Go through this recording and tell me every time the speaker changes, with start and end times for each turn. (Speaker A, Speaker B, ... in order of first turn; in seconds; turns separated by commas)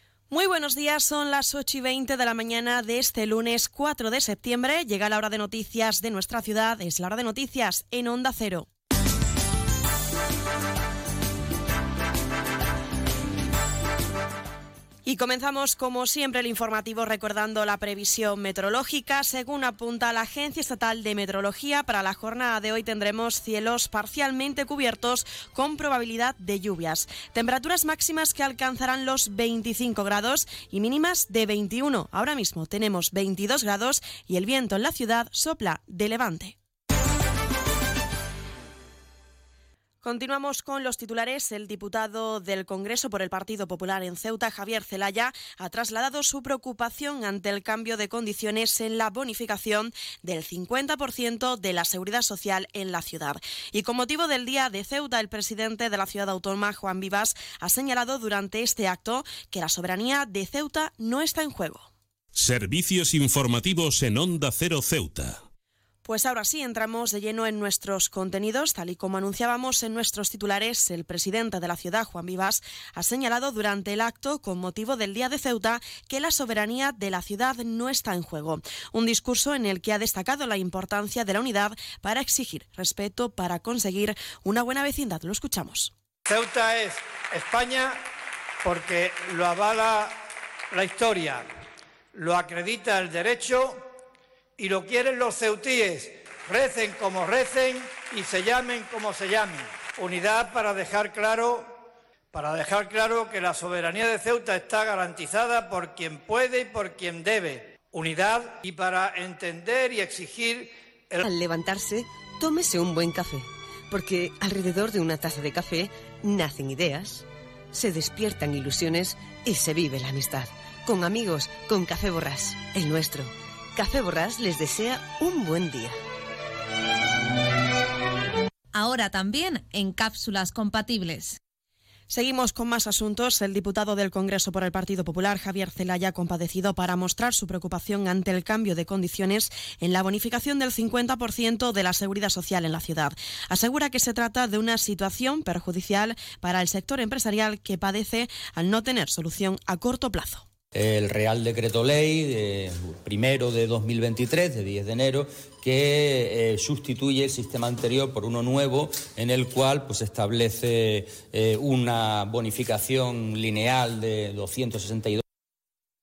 Speaker A: 0.3-8.7, Speaker A: 15.1-36.6, Speaker A: 40.0-61.9, Speaker B: 62.4-65.4, Speaker A: 66.0-85.9, Speaker C: 86.3-88.0, Speaker C: 88.6-90.2, Speaker C: 90.7-91.5, Speaker C: 92.1-93.8, Speaker C: 94.6-101.8, Speaker C: 102.3-111.2, Speaker D: 111.2-126.0, Speaker E: 128.7-131.4, Speaker A: 132.1-150.5, Speaker F: 150.8-165.2